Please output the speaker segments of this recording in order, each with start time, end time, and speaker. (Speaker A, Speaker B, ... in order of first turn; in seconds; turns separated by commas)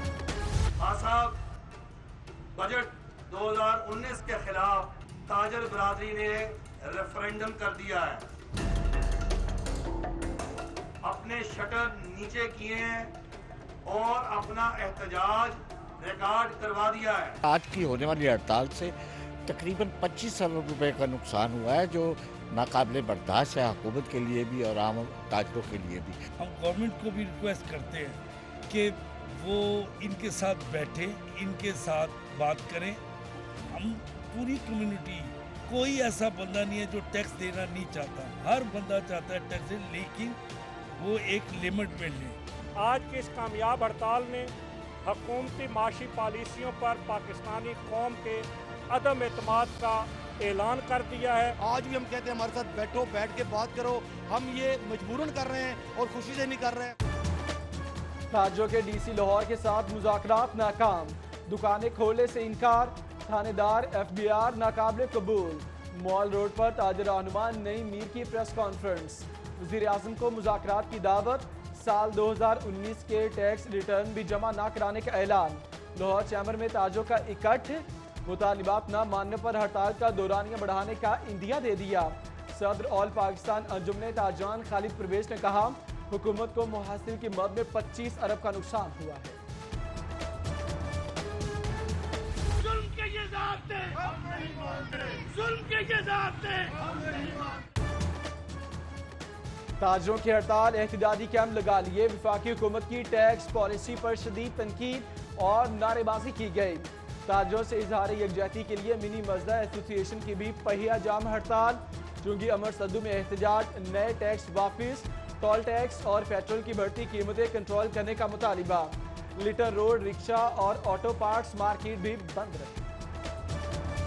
Speaker A: 0.8-1.4, Speaker A: 2.6-8.3, Speaker A: 11.0-13.1, Speaker A: 13.9-17.4, Speaker B: 17.4-18.9, Speaker B: 19.5-26.2, Speaker C: 26.4-33.0, Speaker C: 33.7-40.4, Speaker C: 41.0-42.4, Speaker D: 42.8-44.5, Speaker D: 45.0-51.5, Speaker E: 51.6-57.0, Speaker F: 58.3-89.4, Speaker D: 92.6-96.8, Speaker F: 99.8-122.8